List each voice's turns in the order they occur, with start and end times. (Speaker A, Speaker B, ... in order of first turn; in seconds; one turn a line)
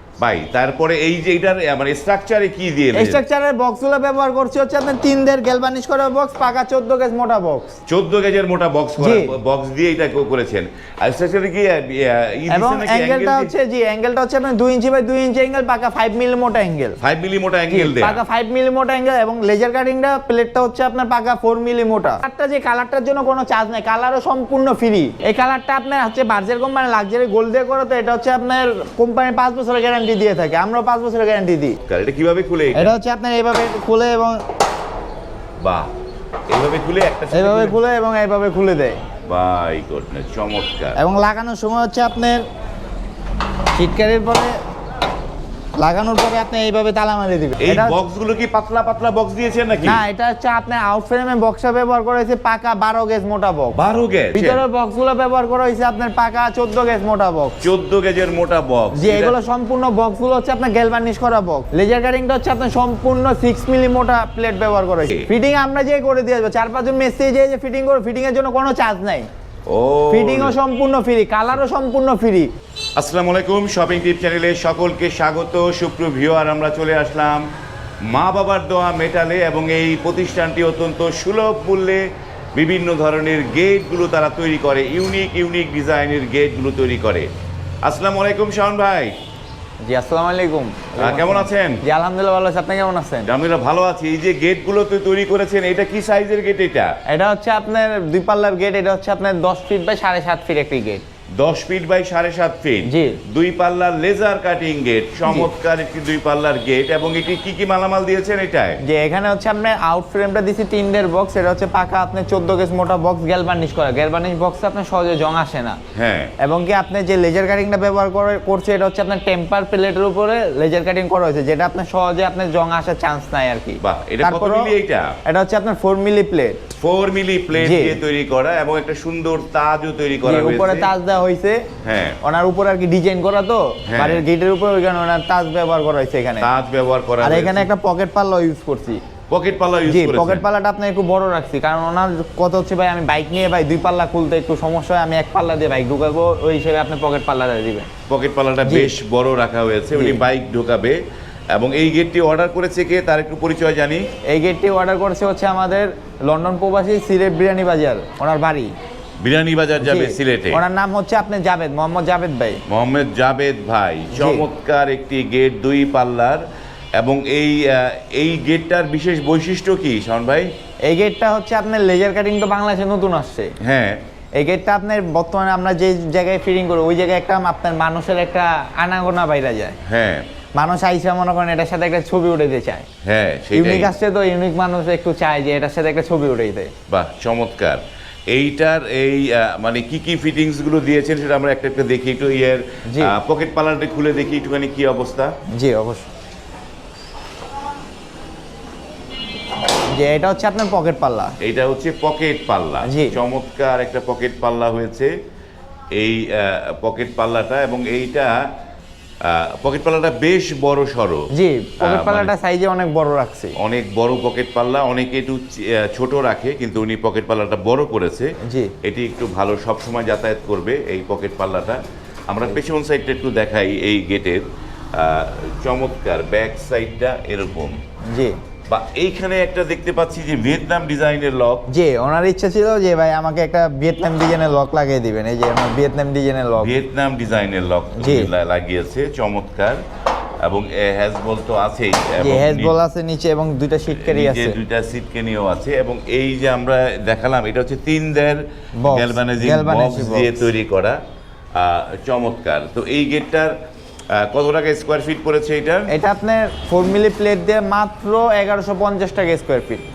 Speaker A: 0.2-3.2
Speaker B: 2.9-7.8
Speaker A: 7.9-13.5
Speaker B: 9.0-9.3
Speaker B: 12.5-17.0
Speaker A: 17.0-18.2
Speaker B: 17.7-31.8
Speaker A: 31.9-32.9
Speaker B: 32.7-34.4
Speaker A: 35.6-35.9
Speaker A: 36.5-37.8
Speaker B: 37.3-39.0
Speaker A: 39.3-41.0
Speaker B: 41.0-42.4
Speaker B: 43.8-44.6
Speaker B: 45.8-48.0
Speaker A: 47.6-50.0
Speaker B: 49.8-53.8
Speaker A: 53.8-54.6
Speaker B: 54.3-57.6
Speaker A: 57.6-59.4
Speaker B: 58.9-69.3
Speaker A: 69.7-70.6
Speaker B: 70.1-72.5
Speaker A: 73.0-77.5
Speaker A: 78.1-87.3
Speaker A: 87.8-89.2
Speaker B: 89.8-93.3
Speaker A: 91.0-91.8
Speaker A: 93.3-96.9
Speaker B: 97.1-101.0
Speaker A: 101.4-108.8
Speaker B: 102.9-103.2
Speaker B: 105.2-105.5
Speaker B: 108.8-115.8
Speaker A: 116.0-116.3
Speaker B: 116.4-124.7
Speaker A: 123.8-125.2
Speaker B: 125.2-126.6
Speaker A: 126.8-130.9
Speaker B: 127.5-128.0
Speaker B: 130.2-131.7
Speaker A: 131.8-132.2
Speaker B: 132.2-136.5
Speaker A: 133.9-134.2
Speaker A: 136.4-137.7
Speaker B: 137.2-139.0
Speaker A: 139.3-140.4
Speaker B: 139.9-147.9
Speaker A: 148.1-151.0
Speaker B: 148.7-148.9
Speaker B: 149.9-150.2
Speaker A: 151.5-154.0
Speaker B: 154.3-158.7
Speaker A: 159.2-160.6
Speaker B: 159.8-162.6
Speaker A: 162.7-166.4
Speaker B: 164.1-164.4
Speaker A: 167.0-170.5
Speaker B: 170.9-173.5
Speaker A: 173.6-174.0
Speaker B: 174.4-179.8
Speaker A: 179.8-180.3
Speaker B: 180.6-182.9
Speaker A: 183.0-183.9
Speaker B: 183.5-186.7
Speaker A: 186.9-195.3
Speaker B: 192.9-193.1
Speaker B: 195.5-196.1
Speaker B: 199.9-201.3
Speaker A: 201.4-205.1
Speaker B: 202.8-203.2
Speaker A: 205.9-208.4
Speaker A: 209.2-211.3
Speaker B: 211.3-213.6
Speaker A: 211.8-212.3
Speaker A: 213.6-218.3
Speaker B: 218.4-218.7
Speaker A: 218.8-224.4
Speaker A: 224.9-227.8
Speaker B: 228.1-228.4
Speaker A: 228.7-231.7
Speaker B: 231.7-236.7
Speaker A: 236.6-239.8
Speaker B: 238.0-238.3
Speaker A: 240.4-242.7
Speaker B: 242.2-244.6
Speaker A: 243.9-251.0
Speaker B: 248.8-250.4
Speaker A: 251.6-253.5
Speaker A: 254.1-255.9
Speaker B: 255.9-259.9